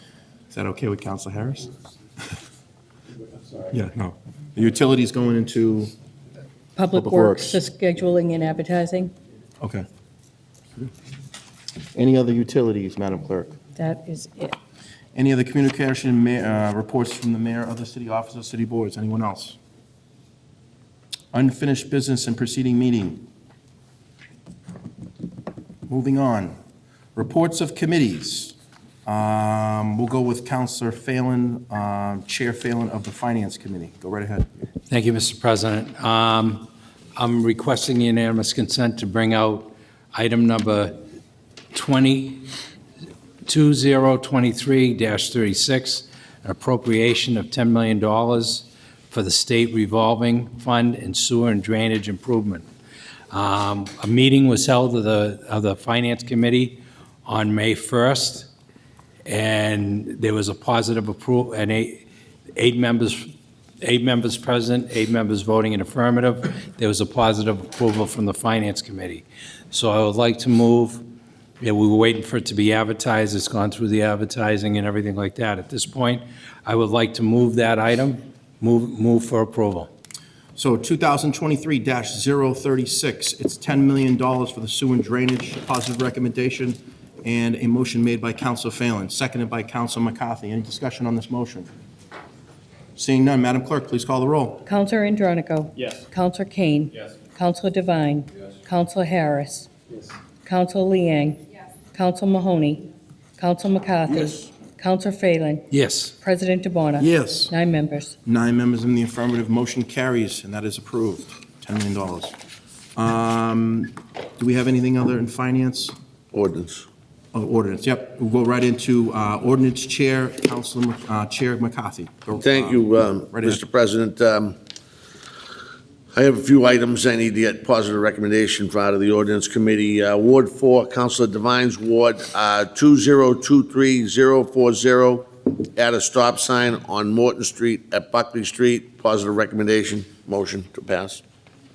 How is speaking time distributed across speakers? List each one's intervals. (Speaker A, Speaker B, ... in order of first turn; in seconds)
Speaker A: 0.5-1.7, 3.7-5.9, 6.9-7.6, 9.6-9.9, 11.9-13.6, 15.2-19.6, 21.3-23.2, 25.9-26.6, 27.2-34.5, 80.6-91.7, 93.0-94.7, 107.0-107.5, 108.2-112.3, 113.0-116.0, 117.3-123.6
Speaker B: 6.8-9.1, 13.8-14.6, 94.7-99.7, 100.4-108.2
Speaker C: 34.9-41.0, 41.7-42.5, 43.5-52.7, 53.3-58.5, 59.3-63.3, 63.8-71.0, 71.6-79.9, 105.7-106.1
Speaker D: 116.3-116.9, 122.4-124.6, 126.1-141.2